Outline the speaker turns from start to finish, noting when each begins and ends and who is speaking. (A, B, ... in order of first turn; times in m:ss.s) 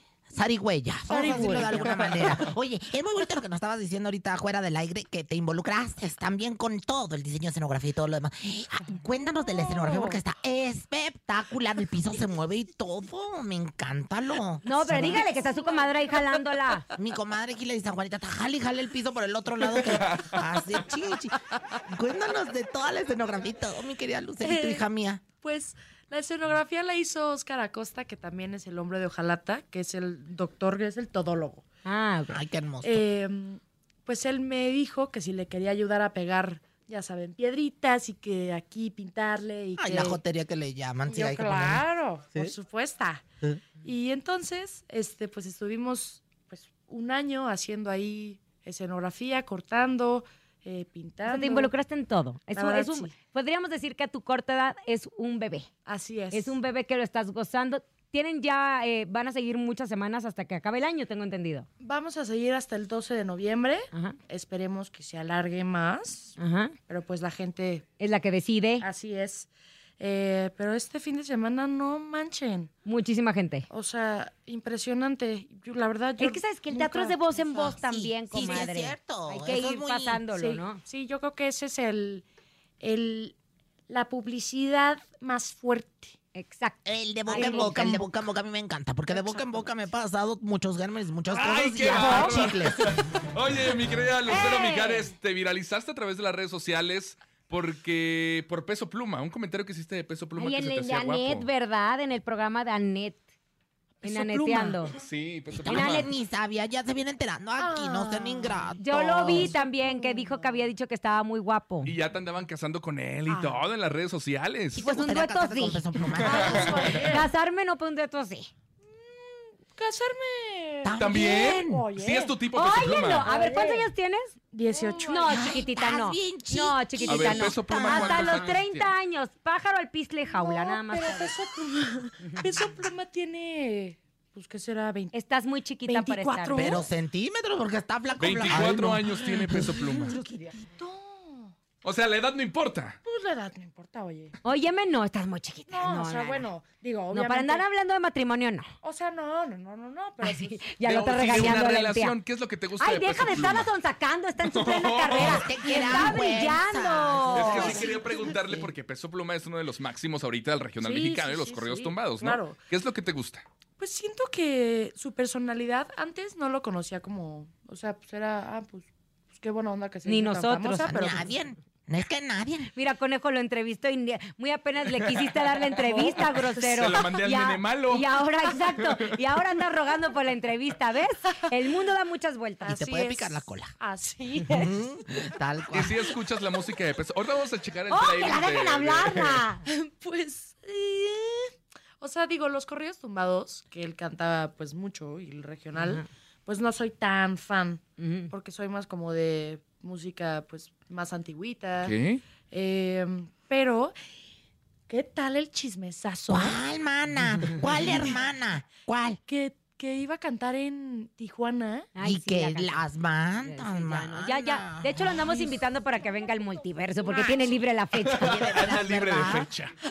0:00.3-0:15.3 A
0:01.1-0:02.5 B
0:09.5-0:10.2 B
0:14.6-0:16.9 C
0:14.7-0:16.4 B
0:17.0-0:25.2 A
0:19.7-0:20.4 D
0:24.4-0:24.9 B
0:25.4-0:31.7 B
0:31.8-0:32.4 C
0:32.3-0:33.0 A
0:32.8-0:40.2 B
0:39.8-0:42.5 A
0:41.1-0:43.3 B
0:43.8-0:51.7 B
0:51.2-0:55.7 C
0:52.5-0:53.1 B
0:55.9-0:56.6 B
0:56.3-1:01.7 C
1:01.8-1:06.4 B
1:03.9-1:04.2 C
1:06.4-1:06.8 C
1:06.9-1:07.9 B
1:08.0-1:08.9 C
1:08.8-1:12.7 B
1:12.9-1:13.7 C
1:13.7-1:17.8 B
1:16.2-1:20.8 C
1:17.8-1:20.2 A
1:18.3-1:18.6 B
1:20.3-1:22.2 B
1:22.8-1:23.4 B
1:23.9-1:26.2 B
1:26.4-1:28.1 C
1:26.8-1:32.9 A
1:27.3-1:27.9 B
1:29.1-1:29.7 B
1:31.3-1:41.5 D
1:31.8-1:32.4 C
1:34.3-1:35.1 C
1:40.4-1:43.2 C
1:44.0-1:44.8 B
1:44.0-1:45.0 C
1:44.8-1:46.1 D
1:45.5-1:49.5 A
1:45.7-1:46.1 C
1:47.6-1:50.7 B
1:48.8-1:51.9 C
1:51.8-1:54.8 D
1:54.7-1:57.0 A
1:54.8-1:58.5 C
1:56.1-1:56.9 D
1:56.2-1:57.3 B
1:58.8-2:02.4 B
2:00.8-2:01.9 A
2:01.0-2:03.3 D
2:02.5-2:11.4 C
2:03.2-2:03.9 B
2:04.5-2:05.6 B
2:05.3-2:08.6 A
2:07.1-2:08.9 D
2:10.3-2:15.1 B
2:12.2-2:12.5 C
2:15.1-2:16.7 C
2:15.9-2:16.9 B
2:16.6-2:19.8 A
2:18.2-2:20.1 D
2:19.1-2:21.6 B
2:21.8-2:23.0 D
2:23.0-2:24.4 B
2:24.4-2:26.5 C
2:25.7-2:27.6 B
2:27.1-2:28.7 C
2:28.8-2:30.8 B
2:30.2-2:32.2 C
2:30.8-2:33.7 D
2:32.8-2:37.8 C
2:34.4-2:35.5 D
2:35.1-2:38.0 A
2:37.3-2:43.4 D
2:37.4-2:38.7 B
2:40.8-2:42.6 B
2:43.8-2:51.3 B
2:50.1-2:51.2 C
2:50.9-2:52.7 A
2:52.8-3:02.8 C
2:54.9-2:55.7 D
2:55.8-2:57.1 B
2:56.6-2:59.2 D
3:02.6-3:04.7 B
3:02.7-3:03.7 A
3:04.5-3:06.1 A
3:05.7-3:09.5 D
3:07.9-3:09.7 C
3:09.7-3:22.0 B
3:15.7-3:16.1 C
3:18.0-3:18.3 C
3:21.8-3:22.2 D
3:22.5-3:24.0 B
3:24.9-3:26.6 B
3:26.3-3:29.2 A
3:29.3-3:31.9 B
3:32.0-3:32.8 C
3:32.0-3:35.0 A
3:33.4-3:38.8 C
3:37.0-3:37.6 B
3:38.0-3:39.7 D
3:38.2-3:39.5 A